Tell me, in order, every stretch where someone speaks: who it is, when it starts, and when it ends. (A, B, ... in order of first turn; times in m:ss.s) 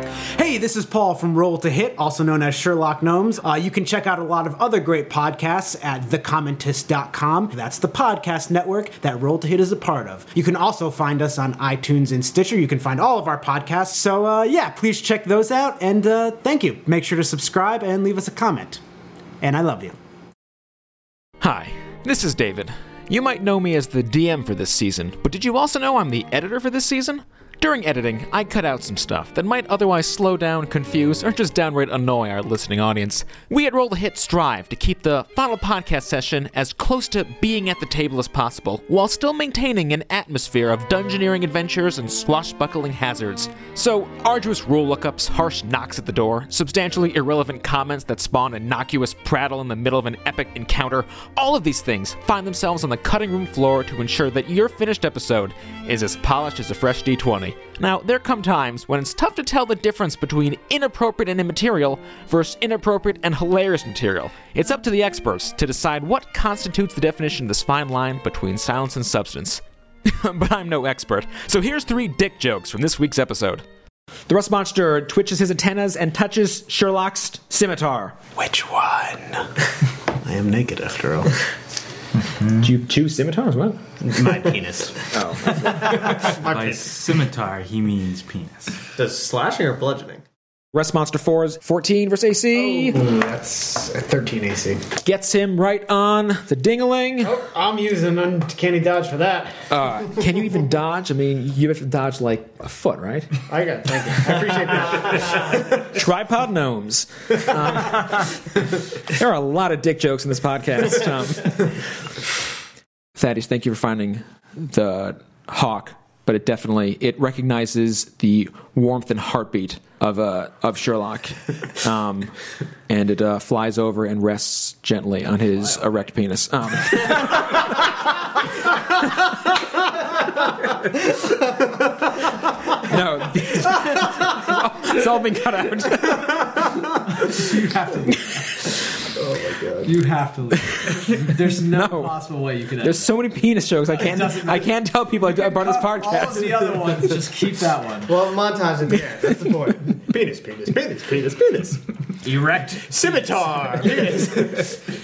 0:00.3-0:18.8 A
0:19.4-0:20.0 A
0:21.4-1:13.6 B
1:14.3-1:18.2 B
1:18.4-1:19.6 A
1:20.2-1:21.4 A
1:22.3-1:22.6 C
1:22.6-1:23.8 B
1:24.0-1:26.8 A
1:25.1-1:26.2 B
1:26.0-1:28.8 C
1:29.0-1:30.2 D
1:30.7-1:33.0 B
1:32.6-1:34.8 A
1:35.0-1:37.4 B
1:37.2-1:39.7 A
1:39.7-1:43.3 B
1:43.5-1:45.7 A
1:45.8-1:48.3 B
1:49.1-1:51.8 B
1:53.2-2:02.4 B
2:02.9-2:07.7 B
2:12.8-2:16.7 B
2:17.1-2:18.6 E
2:19.2-2:19.6 D
2:19.8-2:23.1 E
2:20.7-2:22.2 B
2:22.8-2:26.7 B
2:23.9-2:24.7 E
2:25.4-2:28.1 E
2:28.1-2:29.8 D
2:29.9-2:31.8 A
2:32.2-2:33.4 E
2:32.8-2:34.8 A